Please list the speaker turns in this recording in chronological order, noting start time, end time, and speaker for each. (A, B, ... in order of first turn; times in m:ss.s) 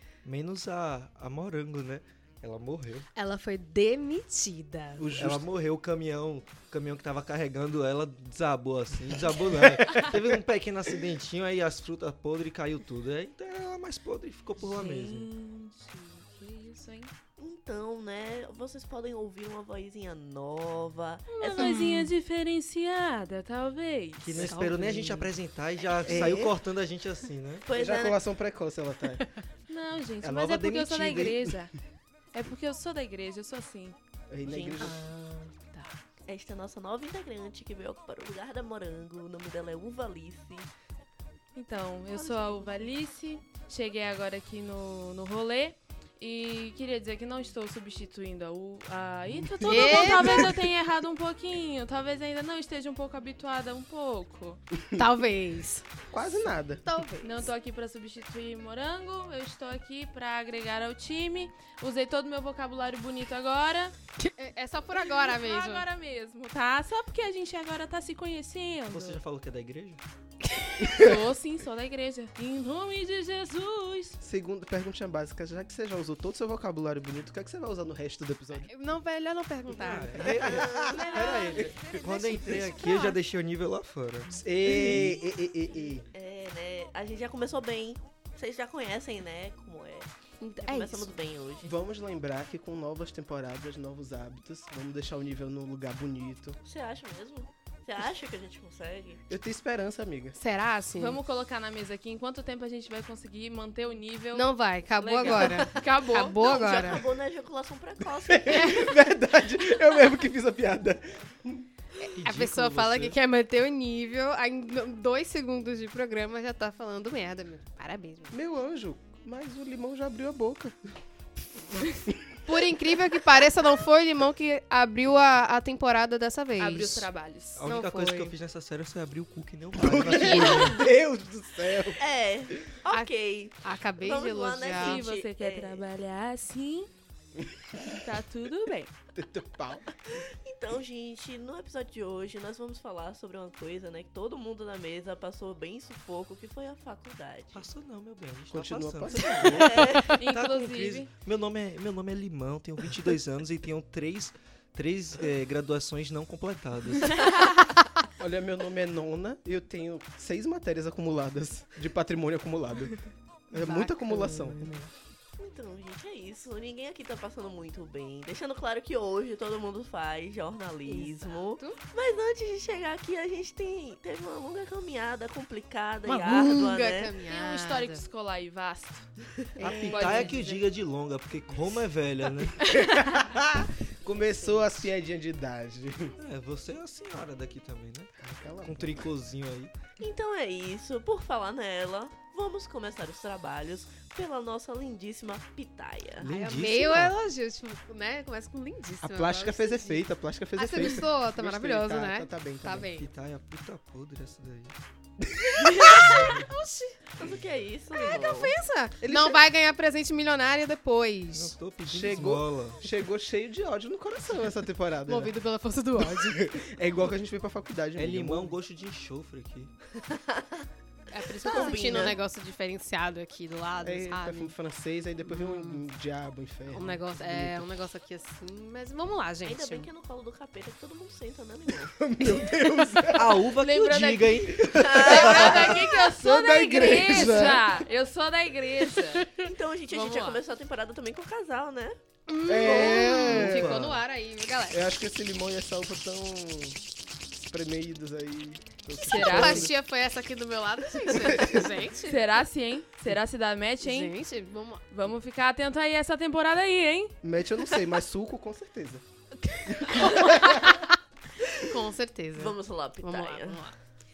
0:00.2-0:03.1 A
0:03.2-0:05.1 B
0:05.0-0:05.4 C
0:05.2-0:15.3 A
0:09.4-0:10.3 C
0:14.6-0:17.1 D
0:17.4-0:21.8 E
0:21.3-0:24.5 D
0:21.6-0:22.1 B
0:24.2-0:27.6 A
0:24.3-0:25.3 B
0:26.0-0:26.6 C
0:27.6-0:28.2 E
0:27.7-0:29.2 C
0:29.7-0:31.7 D
0:30.2-0:31.4 A
0:32.3-0:34.0 D
0:34.3-0:35.0 C
0:34.4-0:35.0 E
0:34.8-0:36.0 B
0:36.3-0:40.7 E
0:41.5-0:54.6 D
0:42.2-0:42.7 B
0:49.6-0:50.6 B
0:49.6-0:50.4 C
0:54.9-0:56.0 B
0:56.1-0:56.8 C
0:56.8-0:57.5 B
0:57.2-1:03.9 D
1:04.2-1:05.8 B
1:05.0-1:09.2 D
1:08.9-1:10.0 A
1:10.8-1:11.1 C
1:10.9-1:14.2 D
1:14.2-1:18.7 C
1:18.6-1:23.1 B
1:19.7-1:25.2 A
1:20.2-1:22.0 C
1:20.8-1:22.1 D
1:24.3-1:26.0 C
1:26.1-1:30.1 E
1:30.4-1:31.1 B
1:30.6-1:31.8 E
1:31.6-1:36.6 C
1:36.6-1:39.2 E
1:39.3-1:40.4 C
1:40.4-1:41.2 B
1:40.9-1:46.4 D
1:44.3-1:47.0 B
1:46.4-1:48.9 E
1:48.3-1:51.7 C
1:48.5-1:48.9 B
1:52.0-1:58.4 B
1:52.1-1:53.2 A
1:58.3-2:00.8 C
2:01.8-2:02.4 C
2:02.4-2:07.1 B
2:06.6-2:07.6 D
2:07.5-2:10.8 A
2:07.6-2:08.3 B
2:09.7-2:12.0 C
2:10.3-2:10.8 E
2:12.0-2:15.9 E
2:12.9-2:15.0 B
2:14.7-2:16.9 D
2:17.5-2:18.0 C
2:17.9-2:18.9 D
2:19.1-2:19.9 C
2:20.2-2:27.6 E
2:27.5-2:37.3 A
2:28.5-2:29.8 C
2:29.6-2:30.1 E
2:30.1-2:31.1 D
2:38.2-2:43.0 C
2:43.5-2:44.8 C
2:43.5-2:44.7 B
2:44.5-2:44.8 A
2:45.4-2:57.1 E
2:50.8-2:51.8 B
2:56.0-2:58.0 B
2:57.2-2:59.1 D
2:59.6-3:00.4 B
2:59.6-3:02.7 A
2:59.7-3:00.6 D
3:02.7-3:06.1 C
3:06.2-3:09.7 A
3:08.2-3:09.1 C
3:10.0-3:16.3 E
3:16.2-3:17.2 A
3:16.2-3:23.1 B
3:19.0-3:22.9 C
3:22.9-3:24.7 A
3:25.3-3:26.3 C
3:25.6-3:27.0 B
3:26.0-3:26.5 A
3:27.2-3:28.5 E
3:27.9-3:31.5 B
3:29.0-3:29.4 C
3:31.3-3:32.8 A
3:31.8-3:35.3 C
3:35.1-3:36.4 B
3:36.0-3:38.6 C
3:38.0-3:39.7 A
3:40.1-3:40.4 E
3:41.1-3:44.5 B
3:41.2-3:42.2 E
3:43.8-3:47.7 C
3:45.2-3:45.8 B
3:46.7-3:49.9 B
3:49.4-3:52.5 E
3:51.9-3:53.4 C
3:53.1-3:55.7 A
3:53.5-3:59.3 D
3:54.5-3:55.5 C
3:54.7-3:55.8 E
3:54.9-3:56.2 B
3:56.2-3:57.7 C
3:59.1-4:00.4 B
3:59.3-4:02.0 E
4:02.3-4:04.8 B
4:02.4-4:03.9 C
4:03.1-4:04.0 A
4:04.7-4:06.8 C
4:07.3-4:09.7 C
4:09.0-4:09.7 D
4:09.2-4:12.1 B
4:11.2-4:11.7 C
4:11.8-4:14.1 D
4:13.8-4:14.8 B
4:14.9-4:17.2 D
4:17.2-4:19.0 C
4:19.4-4:21.0 B
4:19.7-4:20.7 C
4:21.5-4:23.7 B
4:22.3-4:23.7 E